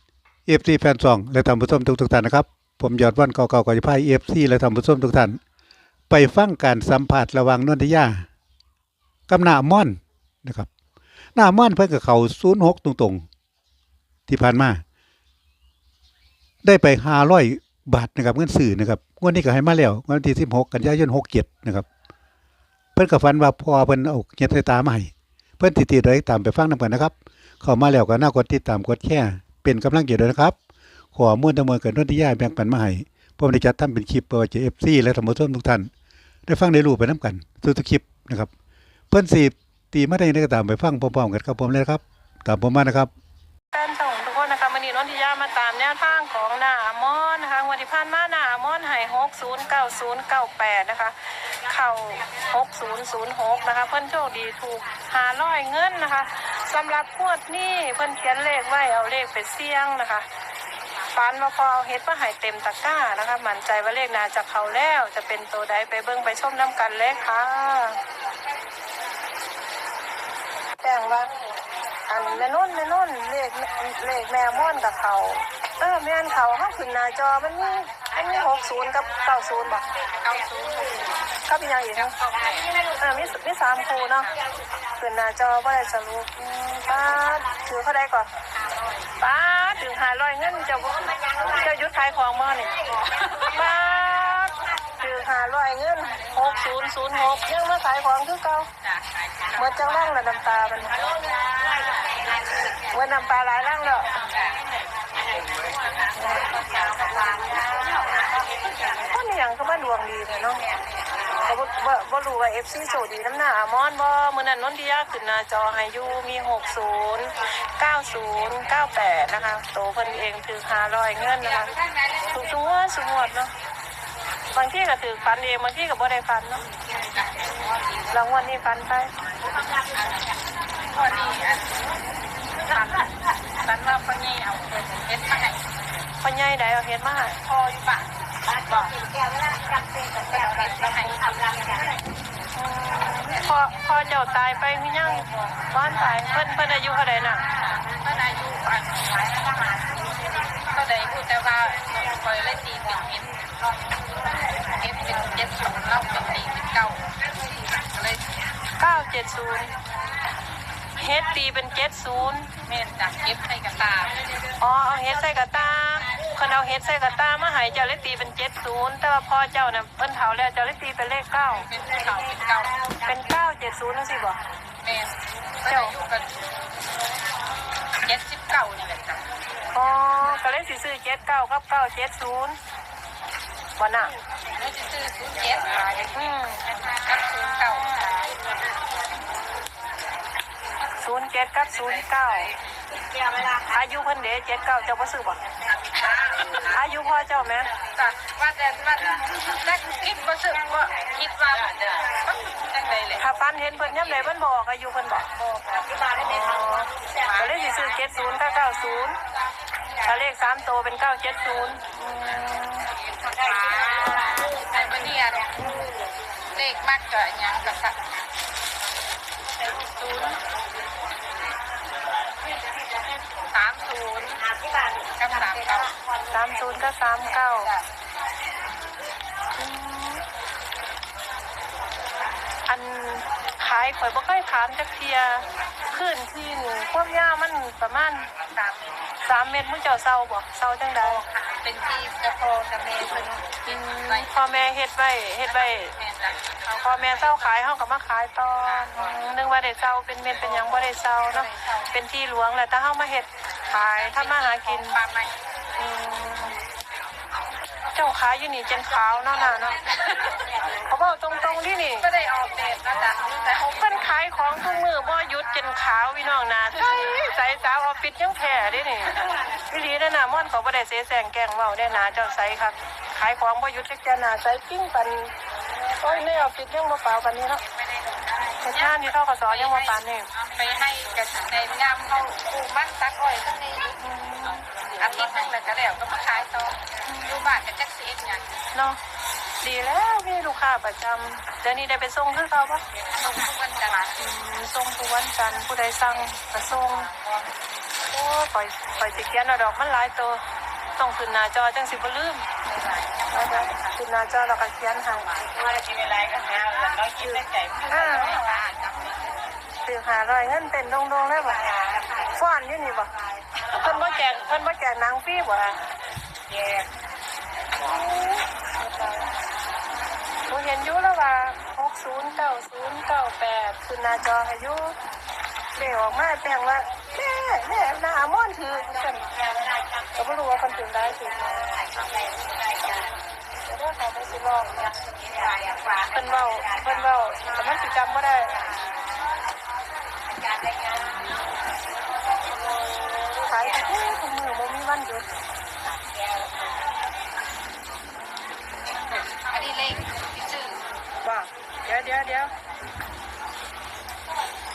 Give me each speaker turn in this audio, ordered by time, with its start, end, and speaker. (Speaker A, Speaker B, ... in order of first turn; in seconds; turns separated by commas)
Speaker A: 0.5-5.4, Speaker A: 6.1-8.3, Speaker A: 9.3-10.7, Speaker A: 11.4-13.3, Speaker A: 14.3-14.8, Speaker A: 16.6-21.9, Speaker A: 23.0-30.6, Speaker A: 31.1-35.9, Speaker A: 36.5-38.5, Speaker A: 39.1-43.1, Speaker B: 43.7-60.3, Speaker B: 61.1-68.0, Speaker B: 70.8-71.3, Speaker B: 72.1-79.9, Speaker C: 80.1-81.3, Speaker B: 81.5-82.2, Speaker C: 81.9-82.9, Speaker B: 82.9-84.3, Speaker B: 85.0-88.3, Speaker B: 89.1-98.7, Speaker C: 93.1-93.4, Speaker C: 98.8-99.7, Speaker B: 99.6-101.1, Speaker B: 102.9-104.1, Speaker C: 104.2-104.5, Speaker B: 106.1-106.6, Speaker C: 106.5-108.4, Speaker B: 109.0-110.7, Speaker B: 111.4-121.7, Speaker C: 121.3-122.6, Speaker B: 122.3-123.5, Speaker B: 124.5-126.7, Speaker C: 126.8-128.2, Speaker B: 128.1-129.1, Speaker C: 129.7-132.0, Speaker C: 132.6-135.8, Speaker B: 136.2-137.4, Speaker C: 137.4-141.9, Speaker B: 142.6-147.5, Speaker C: 143.2-144.0, Speaker C: 145.2-149.9, Speaker C: 150.6-153.5, Speaker C: 154.5-158.2, Speaker B: 158.8-159.7, Speaker B: 161.0-162.5, Speaker C: 162.6-164.2, Speaker B: 164.6-171.7, Speaker C: 171.6-172.9, Speaker B: 172.9-174.4, Speaker C: 174.8-176.3, Speaker B: 175.7-176.0, Speaker C: 177.8-179.2, Speaker B: 179.7-182.6, Speaker B: 183.8-184.2, Speaker C: 184.5-188.2, Speaker B: 186.1-186.9, Speaker B: 191.0-192.5, Speaker B: 193.6-195.4, Speaker C: 196.0-196.7, Speaker B: 196.5-197.7, Speaker C: 197.9-203.3, Speaker B: 203.2-205.3, Speaker C: 204.0-204.3, Speaker C: 205.6-206.0, Speaker B: 206.1-209.2, Speaker C: 207.2-208.4, Speaker B: 210.0-212.9, Speaker C: 213.0-215.8, Speaker C: 216.5-218.0, Speaker C: 219.8-220.4, Speaker C: 223.5-224.5, Speaker C: 225.2-226.0, Speaker B: 226.3-227.7, Speaker C: 227.5-227.8, Speaker B: 229.6-230.3, Speaker B: 232.7-238.3, Speaker C: 238.6-239.0, Speaker B: 239.2-241.2, Speaker C: 241.0-244.8, Speaker B: 243.7-246.0, Speaker C: 245.4-247.6, Speaker B: 246.7-255.0, Speaker C: 251.3-251.9, Speaker C: 253.7-255.4, Speaker B: 255.8-256.6, Speaker B: 257.9-259.9, Speaker C: 259.9-260.3, Speaker B: 260.9-262.1, Speaker C: 262.0-263.7, Speaker B: 263.6-275.3, Speaker B: 276.0-277.6, Speaker C: 277.9-284.0, Speaker B: 278.6-280.3, Speaker B: 284.0-285.4, Speaker C: 284.9-288.6, Speaker B: 287.0-287.5, Speaker B: 288.7-289.0, Speaker B: 289.6-292.8, Speaker C: 293.1-294.2, Speaker B: 294.2-297.1, Speaker C: 296.8-297.5, Speaker B: 298.1-300.4, Speaker B: 301.0-302.5, Speaker C: 302.7-303.9, Speaker B: 303.3-305.5, Speaker C: 305.5-309.2, Speaker B: 307.1-308.4, Speaker B: 309.9-315.8, Speaker C: 311.7-312.1, Speaker C: 316.5-316.9, Speaker B: 317.8-319.3, Speaker B: 320.5-325.0, Speaker B: 325.7-329.5, Speaker B: 330.1-332.3, Speaker B: 333.6-335.2, Speaker B: 336.0-338.7, Speaker B: 343.2-345.3, Speaker C: 349.4-350.8, Speaker B: 351.2-352.5